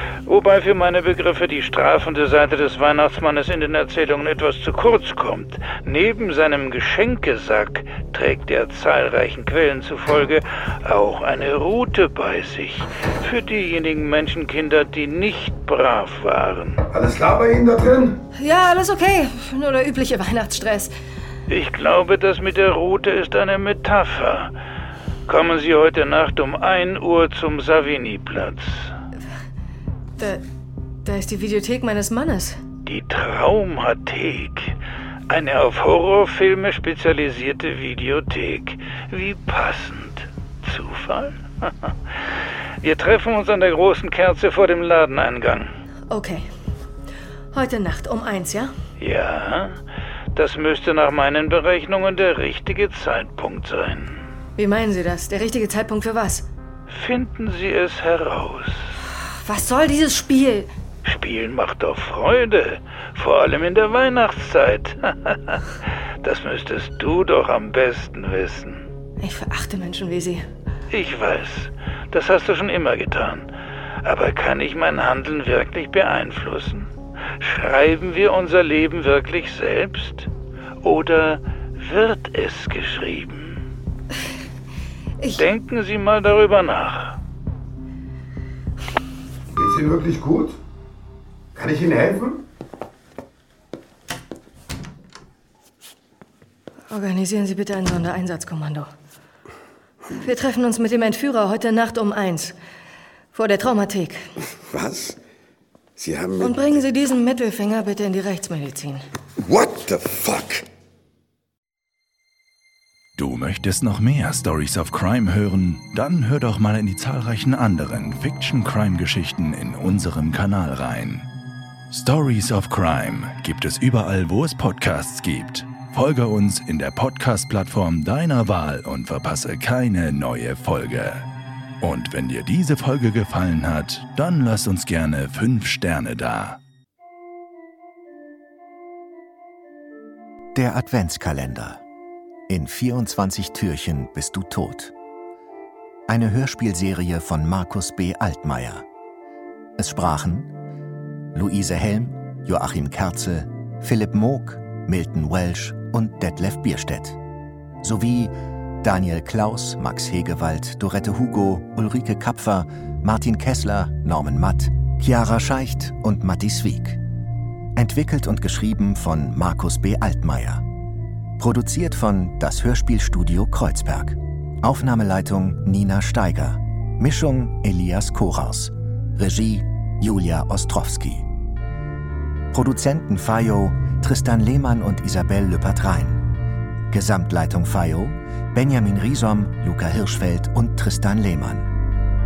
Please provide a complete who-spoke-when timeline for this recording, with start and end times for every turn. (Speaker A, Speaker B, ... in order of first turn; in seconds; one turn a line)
Speaker A: 0.2-16.8
Speaker B: 16.9-18.1
Speaker C: 18.4-20.9
Speaker A: 21.5-24.5
Speaker A: 25.3-28.9
Speaker C: 31.0-32.6
Speaker A: 32.9-34.8
Speaker A: 35.3-41.9
Speaker A: 42.8-45.7
Speaker C: 46.1-46.5
Speaker C: 47.5-48.7
Speaker A: 49.0-49.8
Speaker A: 50.3-54.2
Speaker C: 54.6-56.5
Speaker A: 56.9-58.9
Speaker C: 59.3-60.7
Speaker A: 61.0-68.9
Speaker C: 69.2-70.4
Speaker A: 70.9-73.5
Speaker A: 74.0-80.3
Speaker A: 80.8-83.6
Speaker C: 85.2-85.5
Speaker A: 85.3-87.2
Speaker B: 89.5-90.6
Speaker B: 91.5-92.4
Speaker C: 96.9-98.9
Speaker C: 100.2-102.5
Speaker C: 103.3-104.3
Speaker B: 104.7-105.2
Speaker B: 106.0-106.7
Speaker C: 106.4-109.0
Speaker B: 109.5-110.6
Speaker D: 113.2-121.3
Speaker D: 121.9-131.2
Speaker D: 131.8-136.6
Speaker E: 140.5-141.8
Speaker E: 142.5-144.9
Speaker E: 146.1-148.8
Speaker E: 149.8-150.5
Speaker E: 151.3-157.2
Speaker E: 157.8-167.0
Speaker E: 167.8-170.6
Speaker E: 171.4-181.2
Speaker E: 182.5-186.2
Speaker E: 186.9-191.7